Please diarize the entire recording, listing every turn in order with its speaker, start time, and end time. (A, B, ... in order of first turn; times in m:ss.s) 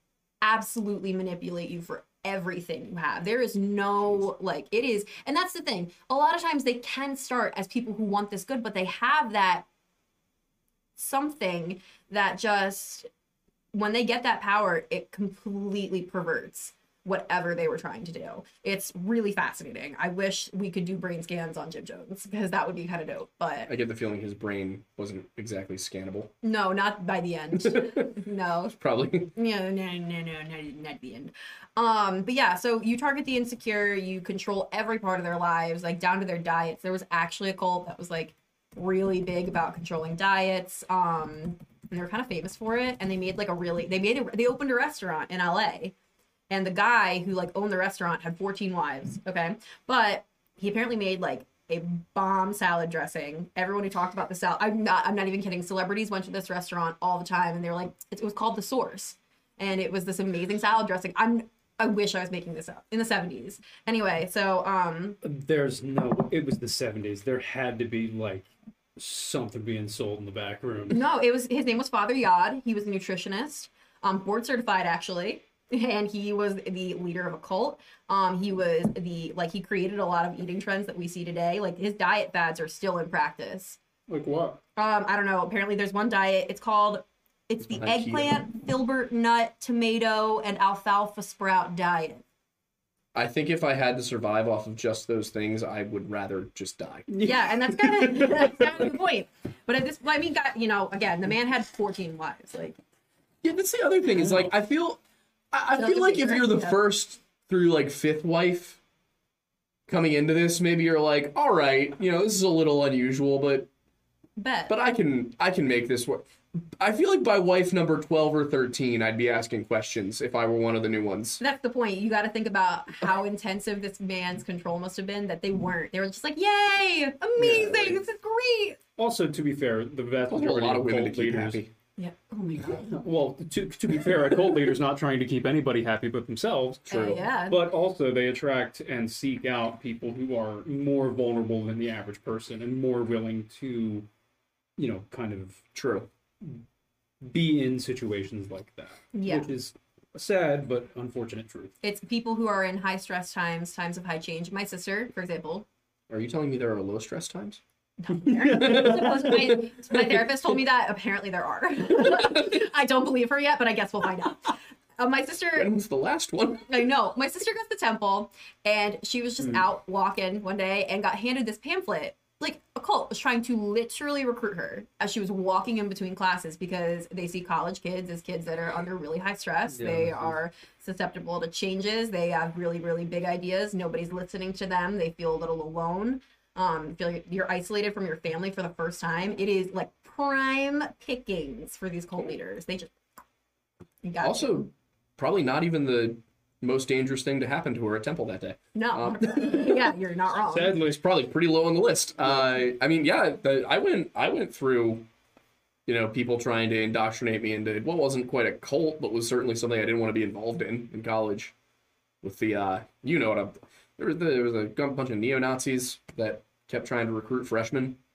0:00.4-0:09.7 A
0:11.0-0:13.1 A
0:13.7-0:23.7 A
0:23.7-0:26.3 B
0:26.4-0:28.8 A
0:27.7-0:28.0 B
0:28.8-0:29.3 B
0:29.3-0:45.9 A
0:46.5-1:05.2 A
1:05.2-1:11.0 C
1:10.9-1:23.8 A
1:24.1-1:24.6 C
1:24.8-1:32.2 A
1:27.6-1:28.4 B
1:33.2-1:37.2 B
1:37.1-1:37.4 C
1:37.2-1:42.8 A
1:43.4-1:45.0 B
1:44.2-1:44.5 C
1:45.5-1:48.8 B
1:45.7-1:46.8 A
1:49.9-1:53.7 B
1:54.4-1:54.7 A
1:54.7-1:56.2 B
1:56.8-2:01.4 B
2:01.4-2:08.8 A
2:07.4-2:08.0 B
2:09.0-2:11.6 C
2:10.3-2:11.7 B
2:12.0-2:13.0 A
2:12.7-2:16.9 C
2:16.9-2:17.2 B
2:16.9-2:17.6 A
2:17.5-2:24.1 C
2:24.8-2:25.6 C
2:25.8-2:26.1 B
2:27.2-2:31.7 C
2:29.1-2:29.5 A
2:31.8-2:35.7 A
2:36.1-2:37.6 B
2:38.0-2:45.7 A
2:38.4-2:39.4 C
2:38.4-2:40.2 B
2:45.6-2:46.8 B
2:46.7-3:12.9 A
2:59.7-3:00.4 C
3:14.0-3:14.7 A
3:14.2-3:19.8 B
3:18.7-3:20.8 A
3:20.5-3:21.0 C
3:20.9-3:25.1 B
3:25.9-3:31.5 B
3:32.2-3:38.0 B